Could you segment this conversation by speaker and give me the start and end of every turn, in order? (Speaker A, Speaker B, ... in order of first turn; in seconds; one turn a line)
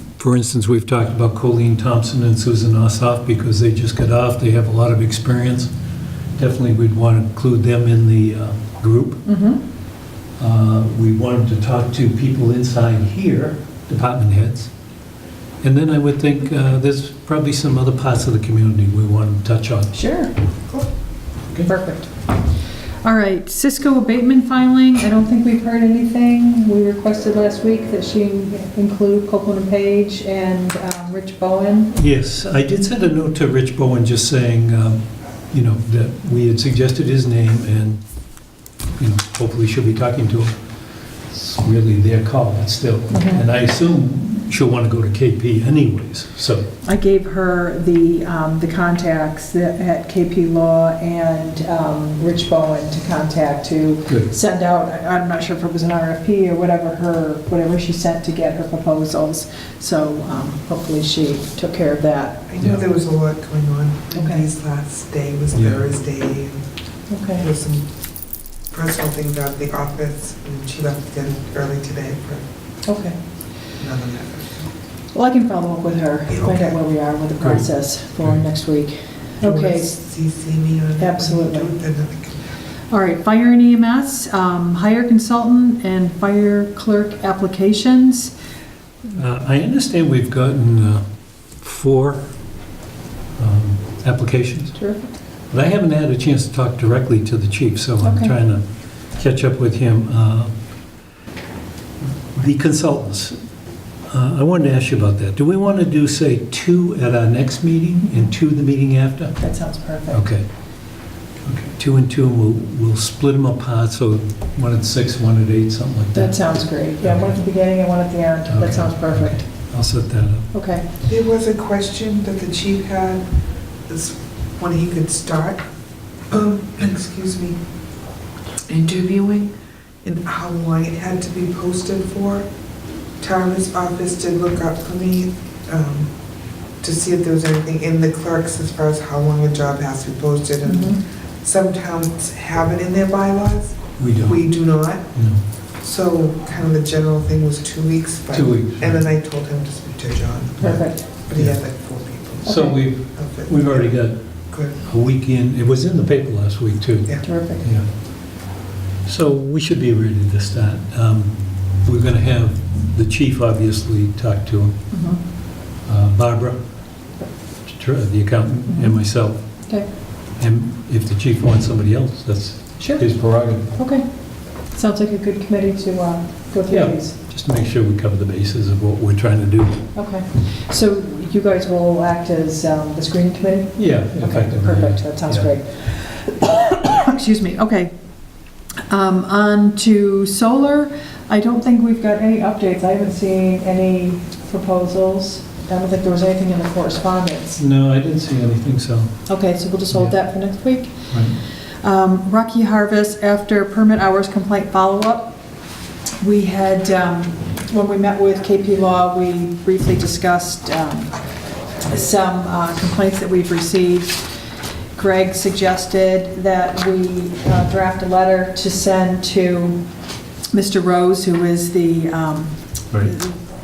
Speaker A: 0.2-5.7
Speaker A: 6.3-9.2
Speaker B: 9.2-9.6
Speaker A: 10.4-14.7
Speaker A: 15.6-19.9
Speaker B: 19.9-20.3
Speaker B: 21.6-22.1
Speaker B: 23.0-31.9
Speaker A: 31.9-38.0
Speaker A: 39.0-40.5
Speaker A: 41.3-46.6
Speaker B: 43.1-43.5
Speaker B: 46.8-62.8
Speaker C: 62.5-66.7
Speaker B: 64.1-64.4
Speaker A: 65.5-65.8
Speaker B: 67.1-67.5
Speaker C: 67.4-67.9
Speaker C: 68.7-72.4
Speaker B: 72.8-73.2
Speaker C: 73.8-74.7
Speaker B: 75.1-79.9
Speaker C: 76.3-76.8
Speaker A: 77.4-77.7
Speaker C: 79.4-82.5
Speaker B: 81.0-81.8
Speaker B: 82.9-88.3
Speaker A: 89.1-91.0
Speaker A: 91.6-92.3
Speaker A: 93.4-94.8
Speaker B: 94.7-95.1
Speaker A: 95.5-98.6
Speaker B: 98.0-98.3
Speaker A: 99.2-100.5
Speaker A: 102.3-103.4
Speaker A: 104.1-109.4
Speaker B: 109.4-110.2
Speaker A: 110.1-110.4
Speaker A: 111.4-117.4
Speaker B: 116.1-119.4
Speaker A: 118.5-120.5
Speaker B: 120.5-120.8
Speaker C: 121.0-123.2
Speaker C: 123.9-125.6
Speaker C: 126.3-127.6
Speaker C: 128.7-129.5
Speaker C: 130.0-132.5
Speaker C: 133.2-136.1
Speaker C: 136.8-145.1
Speaker B: 140.6-141.0
Speaker A: 144.0-144.5
Speaker A: 145.1-145.4
Speaker C: 145.8-153.9
Speaker A: 148.3-149.0
Speaker B: 150.6-151.1
Speaker A: 150.6-151.6
Speaker B: 152.4-152.8
Speaker A: 152.4-154.1
Speaker C: 154.5-154.8
Speaker A: 154.8-157.8
Speaker B: 157.2-157.6
Speaker A: 159.0-164.8
Speaker B: 164.9-165.2
Speaker A: 165.8-166.6
Speaker A: 167.7-169.4
Speaker B: 168.7-169.0
Speaker A: 170.4-173.7
Speaker B: 173.7-174.0
Speaker B: 174.7-177.1
Speaker A: 176.7-179.8
Speaker B: 179.9-187.9
Speaker A: 183.8-185.5
Speaker B: 188.9-197.6
Speaker A: 197.6-199.1
Speaker B: 199.3-200.9
Speaker A: 199.9-200.2
Speaker A: 201.1-201.4
Speaker B: 201.8-205.4
Speaker B: 206.2-211.2
Speaker B: 211.8-214.3
Speaker B: 214.9-219.8
Speaker B: 220.5-223.3